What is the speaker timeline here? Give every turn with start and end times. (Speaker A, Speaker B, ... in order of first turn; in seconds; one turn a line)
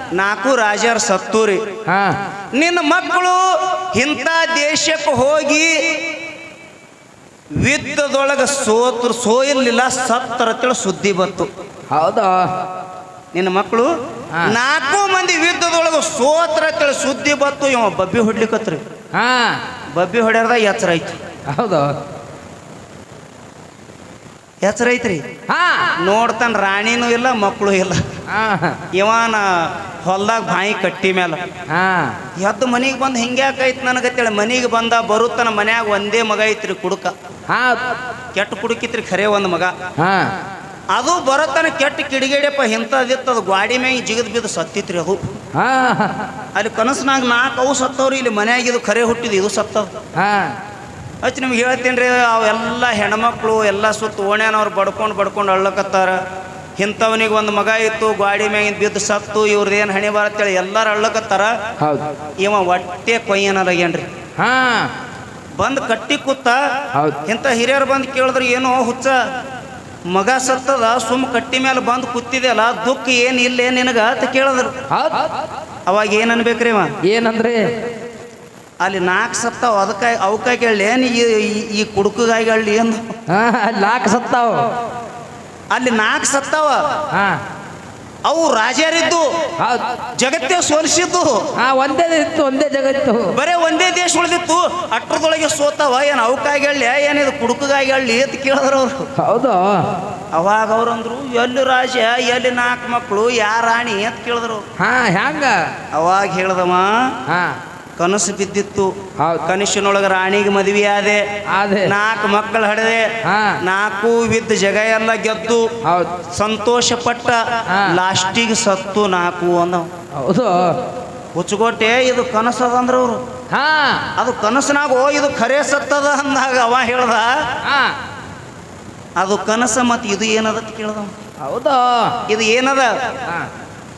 Speaker A: 0.1-1.7
Speaker B: 1.8-2.2
Speaker A: 2.5-6.0
Speaker A: 7.6-11.5
Speaker B: 11.9-12.5
Speaker A: 13.3-13.9
Speaker A: 14.4-18.8
Speaker B: 19.1-19.6
Speaker A: 19.9-21.2
Speaker B: 21.5-22.0
Speaker A: 24.6-25.2
Speaker B: 25.5-25.9
Speaker A: 26.0-28.0
Speaker B: 28.3-28.8
Speaker A: 28.9-31.4
Speaker B: 31.7-32.2
Speaker A: 32.3-37.1
Speaker B: 37.5-38.0
Speaker A: 38.3-39.7
Speaker B: 40.0-40.4
Speaker A: 40.9-45.2
Speaker B: 45.5-46.3
Speaker A: 46.5-49.9
Speaker B: 50.1-50.6
Speaker A: 51.2-56.2
Speaker A: 56.8-61.5
Speaker B: 61.8-62.1
Speaker A: 62.4-64.1
Speaker B: 64.4-64.9
Speaker A: 65.6-66.6
Speaker B: 66.9-67.2
Speaker A: 67.2-69.2
Speaker A: 70.1-74.7
Speaker B: 74.9-75.3
Speaker A: 75.9-76.9
Speaker B: 77.0-77.7
Speaker A: 78.8-83.1
Speaker B: 83.3-84.7
Speaker A: 85.7-86.8
Speaker B: 87.1-87.4
Speaker A: 88.2-89.3
Speaker B: 89.6-90.0
Speaker A: 90.1-91.5
Speaker B: 91.5-93.3
Speaker A: 93.3-99.1
Speaker B: 99.2-100.0
Speaker A: 100.3-104.6
Speaker B: 104.8-105.7
Speaker A: 105.9-107.2
Speaker B: 107.3-107.6
Speaker A: 108.0-111.2
Speaker B: 109.2-109.4
Speaker B: 111.5-111.9
Speaker A: 111.8-115.7
Speaker B: 113.2-113.6
Speaker B: 115.8-116.2
Speaker A: 116.3-119.9
Speaker B: 117.7-117.9
Speaker B: 120.1-120.9
Speaker A: 121.3-123.2
Speaker B: 123.5-124.1
Speaker A: 124.2-127.3
Speaker B: 127.6-128.0
Speaker A: 129.2-131.1
Speaker B: 131.4-132.2
Speaker A: 132.3-133.1